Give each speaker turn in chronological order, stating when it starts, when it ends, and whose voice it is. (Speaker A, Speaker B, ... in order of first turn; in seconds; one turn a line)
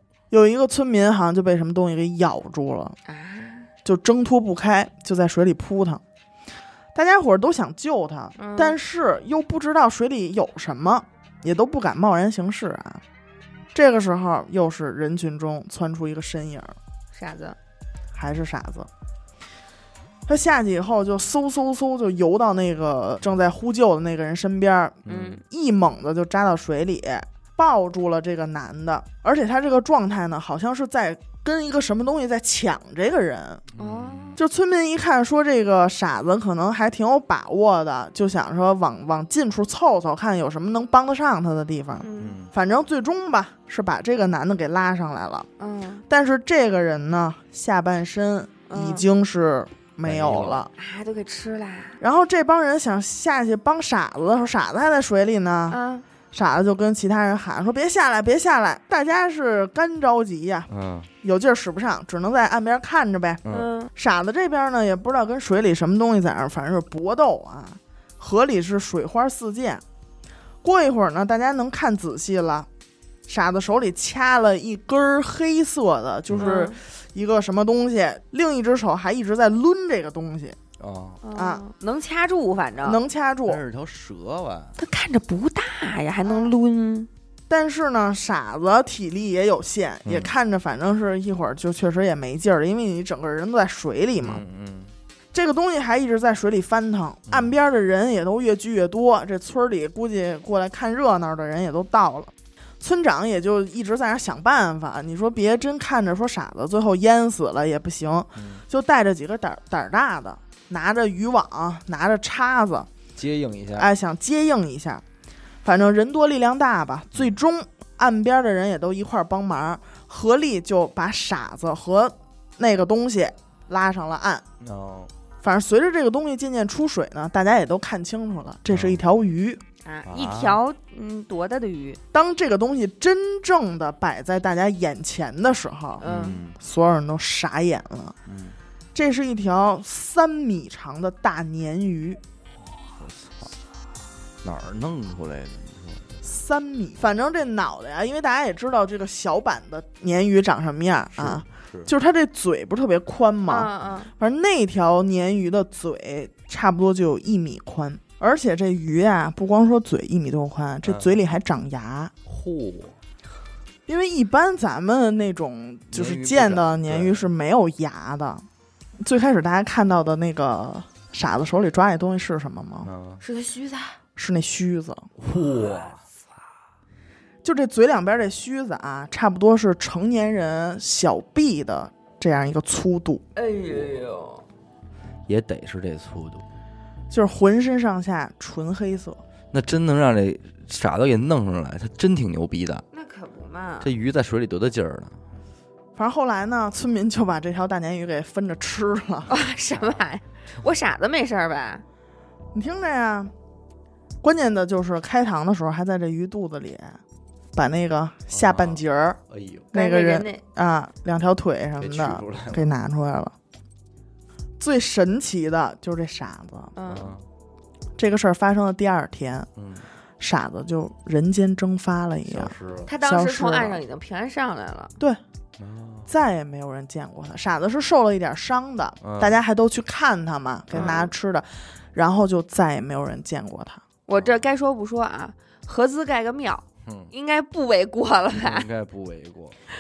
Speaker A: 0.3-3.0
Speaker B: 3.1-3.7
Speaker A: 3.8-6.0
Speaker A: 7.0-13.0
Speaker B: 8.4-8.8
Speaker A: 13.7-16.8
Speaker B: 17.1-17.6
Speaker A: 18.1-18.9
Speaker A: 20.3-33.6
Speaker C: 25.1-25.4
Speaker B: 25.1-25.4
Speaker C: 33.8-34.4
Speaker B: 33.8-34.4
Speaker A: 34.4-45.5
Speaker B: 42.0-42.4
Speaker C: 42.2-42.5
Speaker B: 45.6-46.0
Speaker A: 46.1-50.7
Speaker B: 48.7-49.0
Speaker C: 50.0-50.7
Speaker B: 50.8-52.0
Speaker A: 52.0-55.8
Speaker B: 55.7-56.1
Speaker A: 56.3-60.7
Speaker C: 60.7-61.1
Speaker A: 61.2-63.4
Speaker C: 63.5-63.7
Speaker B: 63.5-63.9
Speaker A: 64.0-69.8
Speaker A: 70.6-72.7
Speaker A: 73.3-80.6
Speaker C: 76.3-76.5
Speaker B: 76.4-76.8
Speaker C: 80.8-81.2
Speaker B: 81.2-83.0
Speaker A: 81.3-81.6
Speaker A: 82.8-83.6
Speaker C: 83.5-84.8
Speaker B: 84.8-87.1
Speaker A: 86.2-86.5
Speaker A: 87.5-94.4
Speaker C: 90.0-90.3
Speaker C: 94.2-94.9
Speaker A: 95.3-112.9
Speaker C: 108.4-108.6
Speaker C: 113.2-113.9
Speaker A: 113.8-115.0
Speaker A: 115.6-124.4
Speaker C: 124.6-125.1
Speaker A: 125.4-129.6
Speaker C: 128.7-129.0
Speaker B: 129.8-132.0
Speaker C: 130.1-130.6
Speaker A: 132.1-136.0
Speaker B: 136.0-136.4
Speaker C: 136.0-136.6
Speaker A: 136.6-138.2
Speaker C: 138.3-138.6
Speaker A: 138.9-142.2
Speaker C: 143.0-143.5
Speaker C: 144.4-146.2
Speaker A: 146.2-162.1
Speaker C: 151.2-151.9
Speaker B: 153.5-154.1
Speaker C: 160.8-161.2
Speaker C: 162.3-163.0
Speaker A: 163.9-168.4
Speaker C: 165.9-167.3
Speaker A: 169.0-172.9
Speaker C: 172.8-173.2
Speaker B: 173.2-174.0
Speaker A: 174.2-175.1
Speaker C: 175.2-176.0
Speaker A: 177.4-183.2
Speaker B: 183.4-184.4
Speaker C: 185.3-186.4
Speaker A: 187.1-189.2
Speaker C: 189.5-192.8
Speaker B: 192.9-193.9
Speaker C: 193.8-195.2
Speaker A: 196.0-199.3
Speaker B: 199.3-201.8
Speaker A: 202.5-203.3
Speaker A: 204.2-207.0
Speaker A: 207.6-209.2
Speaker C: 208.3-209.7
Speaker A: 209.7-213.3
Speaker B: 209.7-210.4
Speaker C: 211.8-212.7
Speaker A: 214.6-216.7
Speaker B: 216.8-217.1
Speaker C: 216.9-217.3
Speaker A: 218.0-219.5
Speaker C: 219.6-219.9
Speaker A: 220.2-223.8
Speaker C: 222.3-222.9
Speaker B: 222.9-224.9
Speaker C: 225.6-226.1
Speaker A: 226.1-233.8
Speaker C: 229.0-229.4
Speaker C: 230.7-231.1
Speaker B: 230.8-231.0
Speaker B: 234.1-238.7
Speaker C: 234.1-234.4
Speaker C: 236.8-237.1
Speaker C: 238.3-239.6